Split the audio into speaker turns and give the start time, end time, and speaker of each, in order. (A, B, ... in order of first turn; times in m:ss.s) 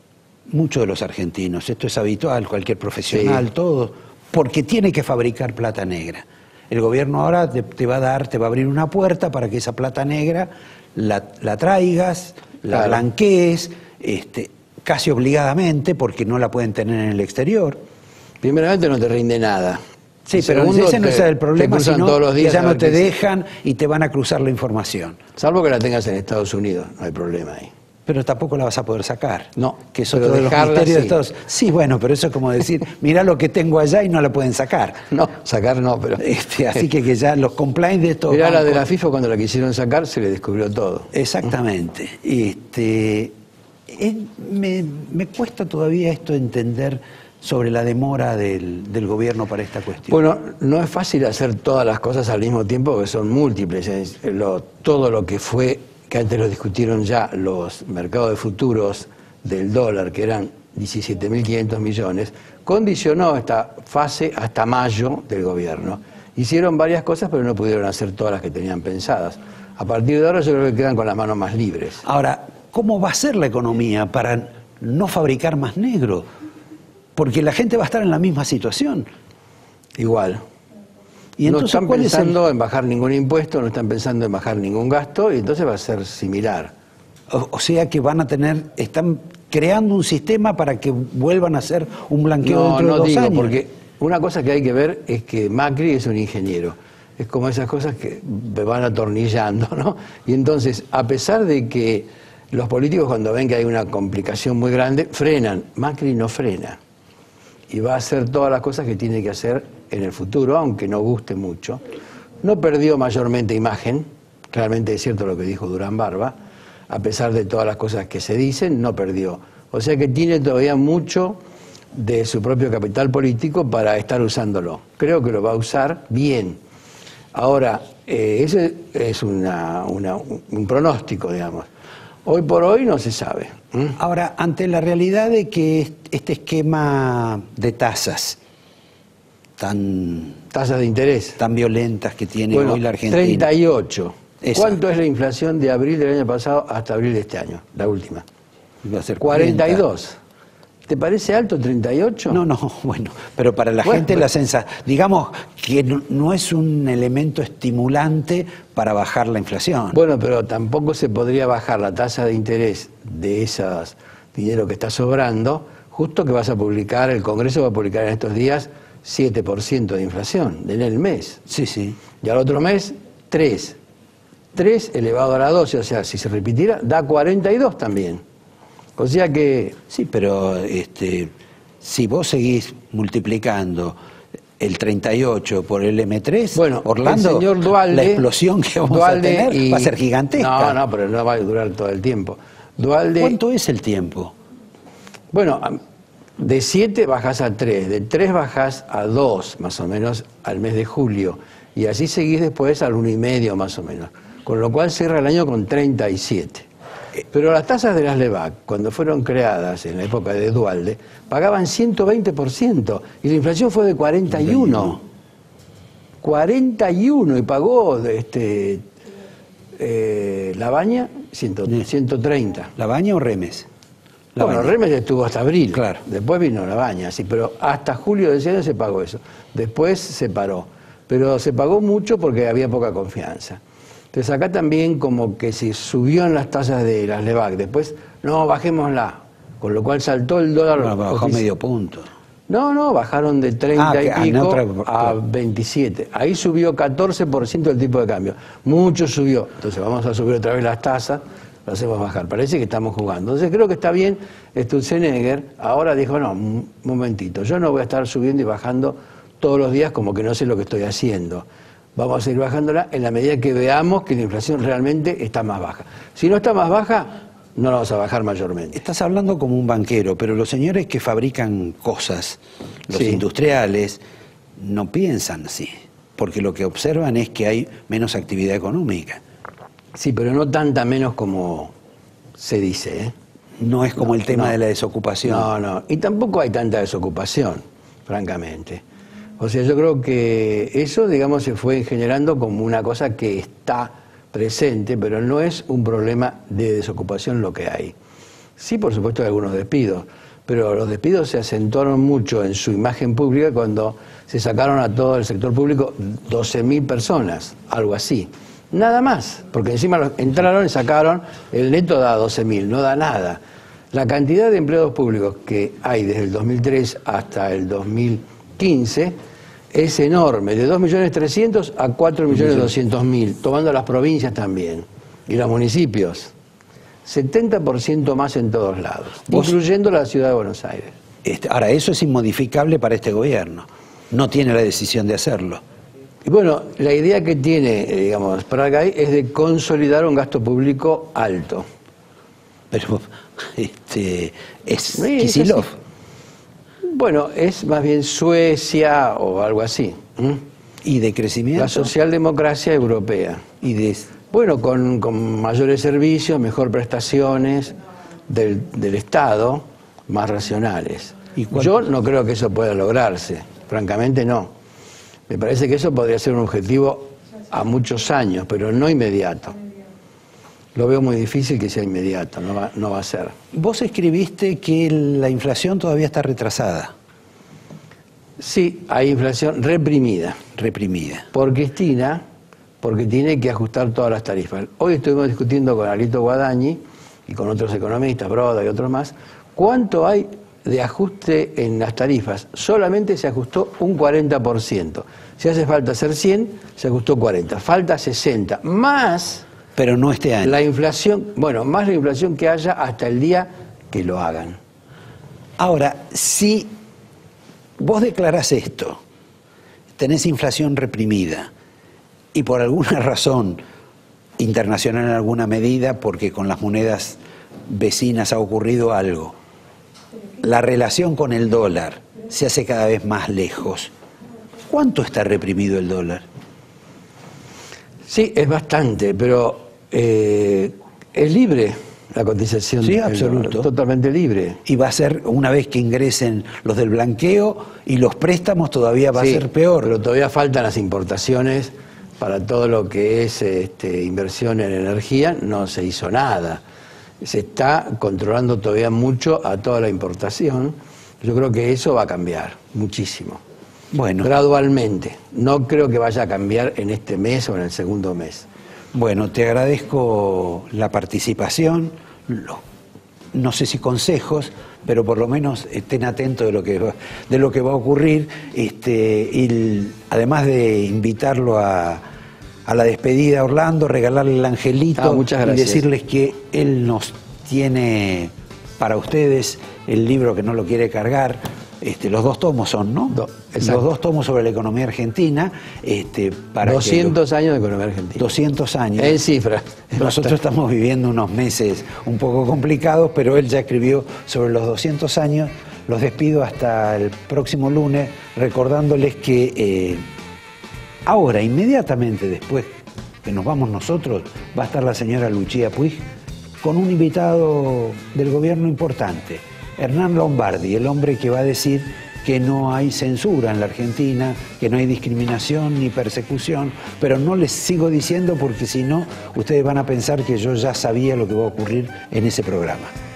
0:00.5-0:17.8 A
0:03.1-0:03.4 B
0:12.7-0:13.0 B
0:18.4-0:19.8 B
0:20.3-0:25.2 A
0:20.4-0:23.1 B
0:25.4-0:27.7 B
0:28.0-0:35.0 A
0:29.6-0:31.2 B
0:35.1-0:36.8 B
0:36.2-0:38.9 A
0:38.3-0:41.1 B
0:41.1-0:43.3 A
0:43.9-0:50.2 A
0:50.1-1:12.0 B
1:12.0-1:16.3 A
1:17.2-1:19.1 A
1:20.0-1:20.4 B
1:21.4-1:22.4 A
1:21.4-1:26.7 B
1:27.3-1:33.6 A
1:32.4-1:46.8 B
1:47.7-1:51.8 B
1:52.4-1:56.4 B
1:56.9-2:01.4 B
2:01.9-2:06.6 B
2:07.3-2:11.7 B
2:12.2-2:14.0 B
2:14.0-2:18.4 A
2:19.6-2:20.4 A
2:20.5-2:21.4 B
2:21.4-2:23.5 A
2:22.5-2:28.2 B
2:24.4-2:24.8 A
2:28.8-2:29.8 A
2:29.2-2:30.1 B
2:30.9-2:32.4 B
2:32.3-2:40.0 A
2:33.8-2:34.2 B
2:39.9-2:51.4 B
2:51.5-2:52.0 A
2:52.2-2:53.8 B
2:54.5-2:58.2 B
2:59.0-2:59.8 B
2:59.9-3:04.0 A
3:04.6-3:10.8 A
3:06.5-3:08.2 B
3:08.9-3:13.4 B
3:13.2-3:14.3 A
3:15.3-3:15.8 B
3:16.4-3:26.7 B
3:27.3-3:35.0 B
3:34.4-3:35.0 A
3:36.2-3:38.8 B
3:39.8-3:42.7 B
3:42.8-3:43.7 A
3:44.4-3:44.8 A
3:44.4-3:53.6 B
3:45.7-3:46.0 A
3:54.1-4:01.4 B
4:00.8-4:02.1 A
4:02.5-4:28.8 B
4:03.8-4:05.2 A
4:28.7-4:34.0 A
4:32.9-4:33.2 B
4:34.6-4:39.2 A
4:39.9-4:41.7 B
4:42.4-4:43.1 B
4:43.6-4:45.5 A
4:44.0-4:44.5 B
4:45.2-4:48.8 B
4:49.4-4:57.9 B
4:58.6-5:13.4 B
5:13.9-5:19.1 B
5:19.7-5:26.3 B
5:22.3-5:22.7 A
5:27.0-5:31.0 B
5:29.3-5:29.6 A
5:31.2-5:35.6 A
5:36.2-5:41.7 B
5:42.7-5:45.7 A
5:44.9-5:45.7 B
5:46.8-5:50.4 B
5:50.8-5:51.9 A
5:51.6-5:53.4 B
5:53.6-5:54.1 A
5:54.2-5:57.8 B
5:58.3-6:04.5 B
6:01.3-6:01.8 A
6:05.3-6:09.6 B
6:10.7-6:13.3 B
6:13.5-6:16.9 A
6:18.4-6:20.4 B
6:20.5-6:21.3 A
6:21.3-6:22.2 B
6:22.8-6:39.4 B
6:39.8-6:40.6 A
6:40.4-6:44.6 B
6:45.6-6:46.7 A
6:47.8-6:49.0 A
6:50.0-6:51.5 A
6:52.3-6:53.6 A
6:54.4-6:59.3 A
7:00.4-7:03.9 A
7:04.6-7:06.2 A
7:08.1-7:14.6 B
7:12.8-7:13.7 A
7:14.6-7:19.9 A
7:19.2-7:26.6 B
7:27.2-7:33.4 B
7:33.9-7:34.3 A
7:34.2-7:38.4 B
7:38.9-7:42.6 A
7:43.3-7:52.0 A
7:52.6-8:07.2 A
7:55.0-7:55.8 B
8:03.1-8:03.8 B
8:06.6-8:08.3 B
8:08.2-8:09.2 A
8:09.0-8:10.4 B
8:09.9-8:20.0 A
8:21.0-8:22.7 A
8:23.2-8:26.0 A
8:26.6-8:42.9 A